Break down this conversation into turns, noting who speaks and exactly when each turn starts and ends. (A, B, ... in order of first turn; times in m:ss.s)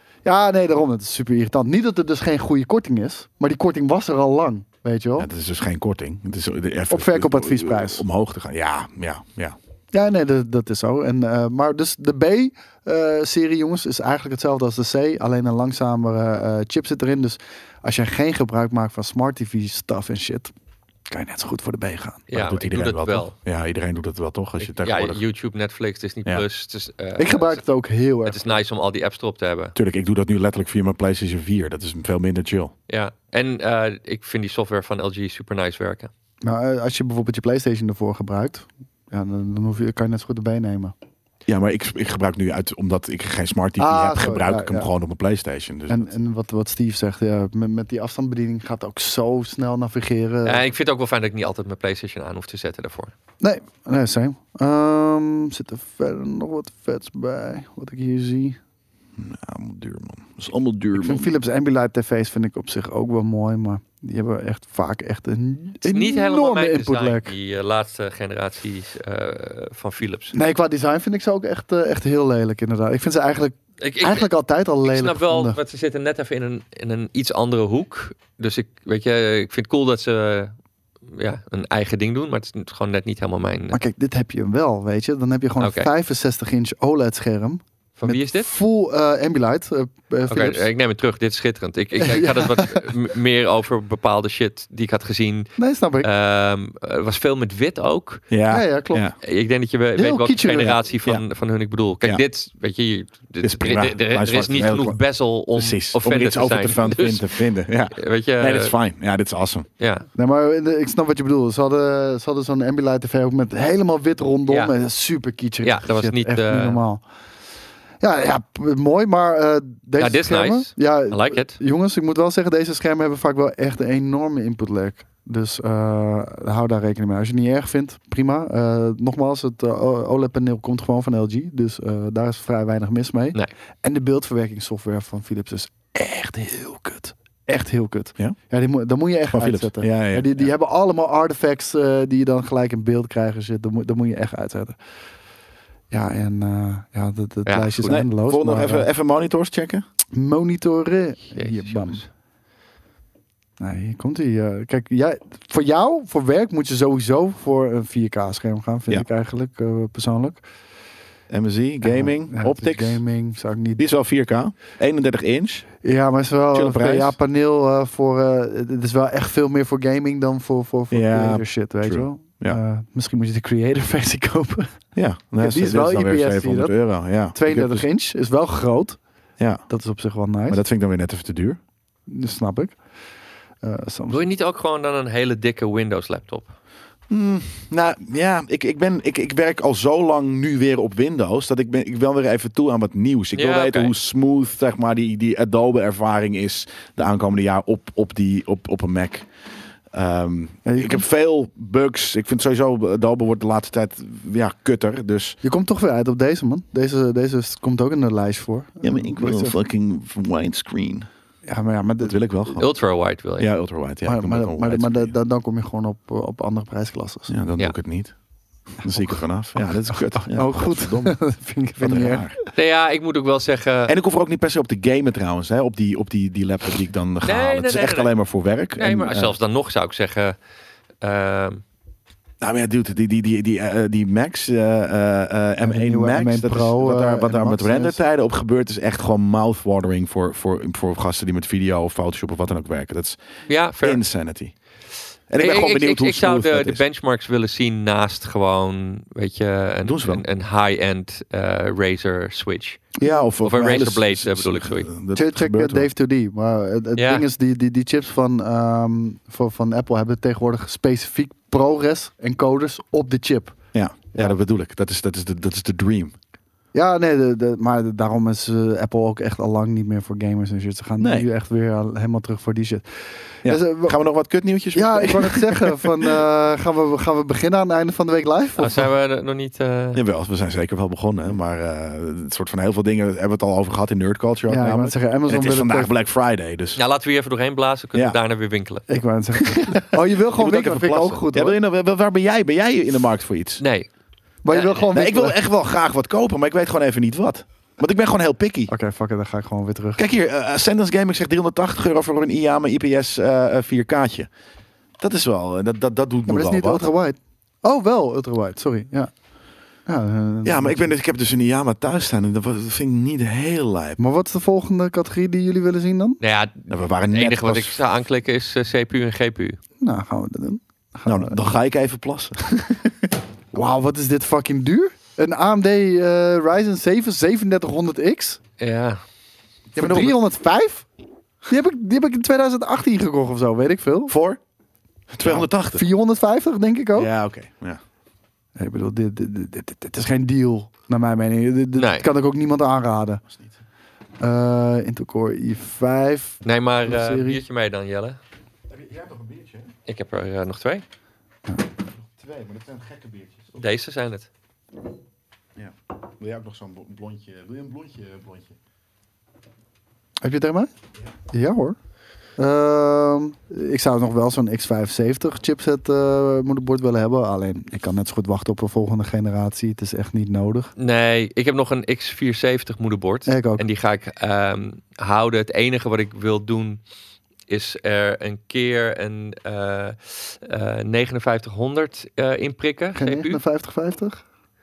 0:00.2-0:05.3 A
0:05.2-0:09.6 B
0:06.9-0:08.0 A
0:09.9-0:20.5 A
0:21.1-0:22.2 A
0:22.3-0:23.3 C
0:22.3-0:25.2 B
0:24.6-0:27.6 C
0:27.2-0:28.4 A
0:28.2-0:29.8 C
0:29.8-0:32.7 B
0:32.9-0:36.1 C
0:36.4-0:40.9 A
0:41.5-0:46.1 B
0:43.8-0:44.9 A
0:45.9-0:50.6 A
0:50.4-0:53.1 C
0:53.4-0:58.6 A
0:59.2-1:01.3 B
1:01.0-1:07.3 A
1:05.8-1:10.4 C
1:10.3-1:15.6 A
1:13.8-1:14.3 C
1:14.8-1:20.6 C
1:21.1-1:23.8 C
1:23.7-1:30.6 A
1:25.6-1:25.9 C
1:28.0-1:28.5 C
1:30.3-1:38.3 C
1:32.0-1:33.0 A
1:35.6-1:36.1 A
1:38.3-1:39.2 B
1:38.5-1:39.1 A
1:39.2-1:47.3 C
1:40.0-1:40.8 A
1:40.6-1:41.2 B
1:43.4-1:45.0 B
1:45.5-1:49.7 B
1:47.9-1:48.7 C
1:49.8-1:50.0 C
1:50.2-1:57.0 A
1:55.6-1:56.8 C
1:58.0-2:24.8 A
2:00.0-2:01.6 C
2:19.3-2:20.5 B
2:25.9-2:28.9 A
2:27.5-2:28.0 C
2:27.9-2:29.8 B
2:30.1-2:32.0 A
2:31.4-2:32.1 C
2:33.6-2:40.4 A
2:41.3-2:43.0 B
2:41.8-2:43.8 A
2:43.8-2:45.7 B
2:45.8-2:54.7 A
2:46.5-2:47.1 B
2:50.9-2:52.6 B
2:55.0-2:57.9 B
2:55.4-2:56.8 A
2:57.3-2:59.0 A
2:59.4-2:59.6 B
2:59.7-3:00.6 A
3:00.5-3:01.6 B
3:02.1-3:02.8 A
3:03.6-3:04.2 A
3:04.1-3:06.5 C
3:07.1-3:19.3 B
3:13.4-3:13.9 C
3:19.9-3:25.4 B
3:20.6-3:21.0 A
3:25.4-3:29.6 A
3:28.8-3:31.1 B
3:31.5-3:32.2 A
3:32.0-3:32.7 B
3:32.6-3:33.5 C
3:33.4-3:35.1 B
3:34.0-3:37.3 A
3:37.3-3:38.1 B
3:38.8-3:41.2 B
3:39.9-3:42.3 A
3:41.8-3:42.4 B
3:42.5-3:43.9 C
3:43.9-3:49.3 B
3:47.3-3:48.1 C
3:48.8-3:50.4 C
3:51.0-3:51.6 C
3:52.4-4:03.2 B
3:55.6-3:58.0 A
4:03.5-4:04.0 C
4:03.8-4:04.5 B
4:05.3-4:06.8 B
4:05.4-4:12.9 C
4:09.8-4:10.2 B
4:13.0-4:13.3 A
4:13.0-4:15.9 B
4:13.4-4:14.9 C
4:15.1-4:23.6 A
4:17.0-4:17.2 C
4:23.7-4:26.2 B
4:26.7-4:34.0 A
4:31.0-4:31.3 B
4:33.4-4:36.1 B
4:34.7-4:38.9 A
4:38.6-4:40.0 C
4:40.0-4:46.8 B
4:44.5-4:45.9 A
4:46.8-4:48.9 C
4:48.9-4:51.6 A
4:50.3-4:53.6 B
4:53.6-4:53.9 C
4:54.4-4:55.4 A
4:54.7-4:58.7 B
4:58.7-5:00.0 A
5:00.0-5:04.3 B
5:05.0-5:06.9 B
5:06.3-5:09.1 A
5:09.9-5:10.9 A
5:10.4-5:14.0 B
5:14.0-5:16.2 A
5:16.2-5:19.6 C
5:16.7-5:17.8 B
5:19.8-5:21.4 A
5:21.1-5:23.1 B
5:23.5-5:28.4 A
5:28.6-5:29.0 C
5:29.7-5:30.2 B
5:29.8-5:30.9 A
5:31.5-5:34.1 A
5:34.1-5:34.4 B
5:35.1-5:35.8 B
5:35.2-5:37.1 A
5:37.0-5:37.8 B
5:38.6-5:43.2 A
5:41.8-5:42.0 C
5:44.2-5:47.4 A
5:46.4-5:48.2 C
5:48.7-5:49.7 B
5:49.9-5:50.8 C
5:52.0-5:53.6 B
5:53.6-5:54.3 C
5:55.6-5:58.6 B
6:00.2-6:00.7 A
6:01.3-6:01.8 A
6:02.4-6:10.7 A
6:10.8-6:16.8 C
6:13.3-6:13.6 A
6:17.5-6:23.4 C
6:23.0-6:24.2 A